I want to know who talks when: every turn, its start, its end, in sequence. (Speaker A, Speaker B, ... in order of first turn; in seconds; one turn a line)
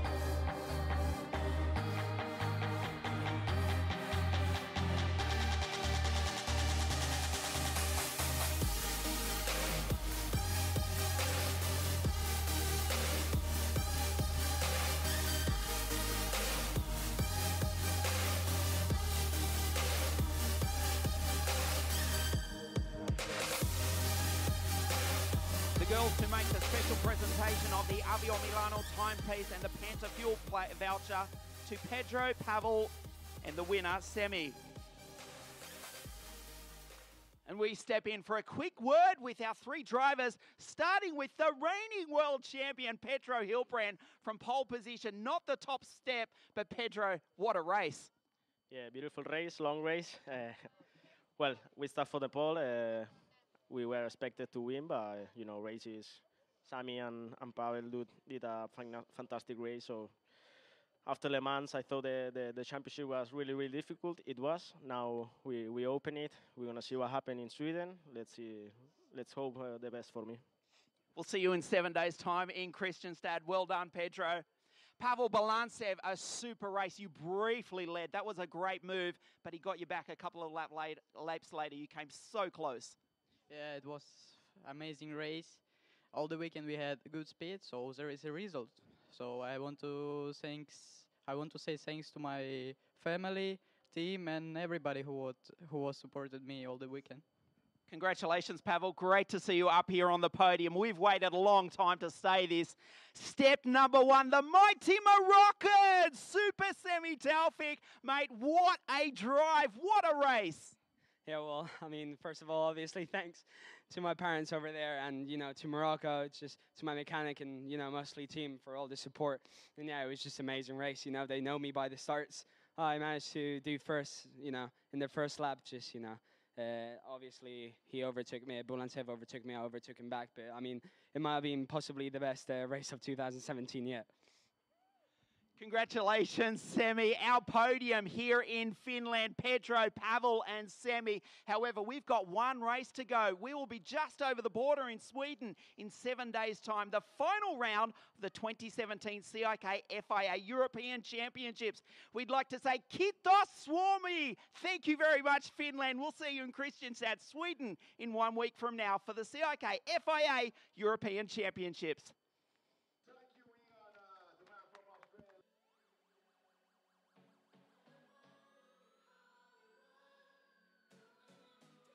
Speaker A: 25.8-34.6
Speaker A: 37.5-48.1
Speaker B: 48.7-50.7
Speaker B: 51.4-60.2
Speaker B: 61.0-70.4
Speaker A: 71.1-74.5
Speaker A: 75.0-83.0
Speaker C: 83.5-97.2
Speaker A: 97.9-110.8
Speaker D: 111.2-134.1
Speaker A: 135.6-162.1